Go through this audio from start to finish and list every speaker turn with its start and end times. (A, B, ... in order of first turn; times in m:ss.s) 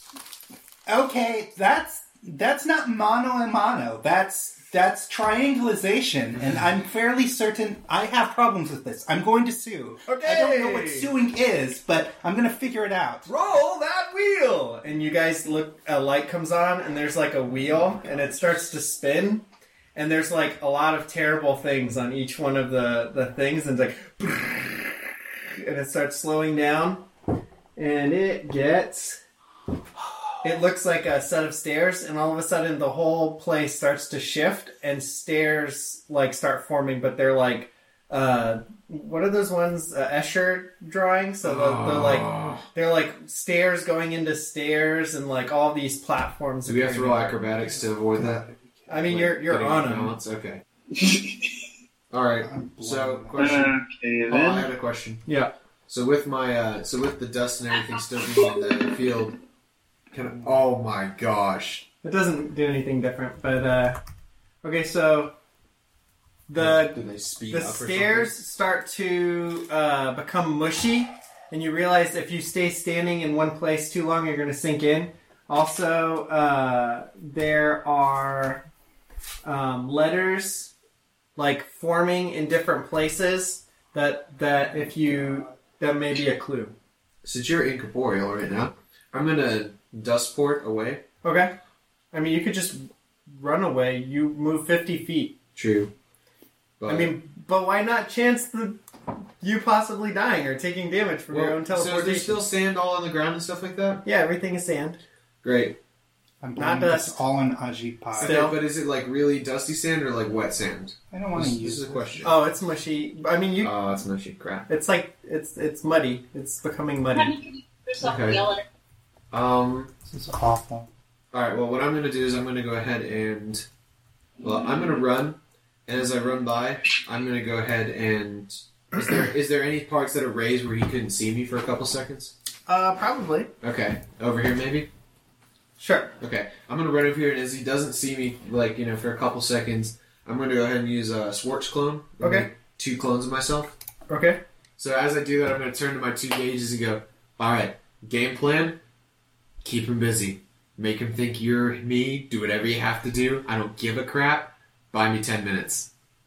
0:00.9-0:13.3 A
0:10.1-0:11.1 B
0:13.3-0:25.0 B
0:25.6-0:27.1 B
0:27.8-0:29.2 B
0:30.4-0:47.4 B
0:41.4-0:42.6 C
0:46.7-0:48.4 C
0:47.7-0:49.1 A
0:48.9-0:50.2 B
0:49.0-0:50.6 C
0:50.9-0:51.6 D
0:52.1-0:53.8 C
0:52.4-0:53.6 A
0:53.4-0:54.7 D
0:54.3-0:55.2 C
0:55.3-0:55.5 B
0:55.9-0:59.4 C
1:00.1-1:01.9 C
1:02.0-1:04.0 B
1:04.6-1:05.4 B
1:06.5-1:18.6 B
1:06.6-1:08.4 C
1:19.4-1:20.7 B
1:21.4-1:26.7 B
1:24.9-1:25.5 A
1:27.2-1:31.0 C
1:31.2-1:31.5 B
1:32.1-1:35.4 B
1:35.6-1:35.9 C
1:36.8-1:37.1 C
1:36.9-1:38.8 B
1:39.4-1:42.4 B
1:41.3-1:44.0 C
1:44.0-1:45.0 B
1:45.4-1:45.8 C
1:46.4-1:48.5 A
1:46.6-1:47.2 B
1:48.2-1:52.5 C
1:48.2-1:48.6 B
1:51.1-1:52.3 A
1:52.2-1:53.8 B
1:53.6-1:54.7 C
1:54.7-1:57.4 B
1:58.0-1:58.6 C
1:59.3-1:59.9 C
2:00.1-2:00.9 A
2:01.3-2:03.7 C
2:04.4-2:12.3 C
2:12.7-2:13.5 B
2:13.6-2:14.9 C
2:15.8-2:16.1 B
2:16.2-2:23.8 C
2:22.2-2:22.5 B
2:24.1-2:24.4 B
2:24.8-2:28.8 C
2:29.6-2:35.9 C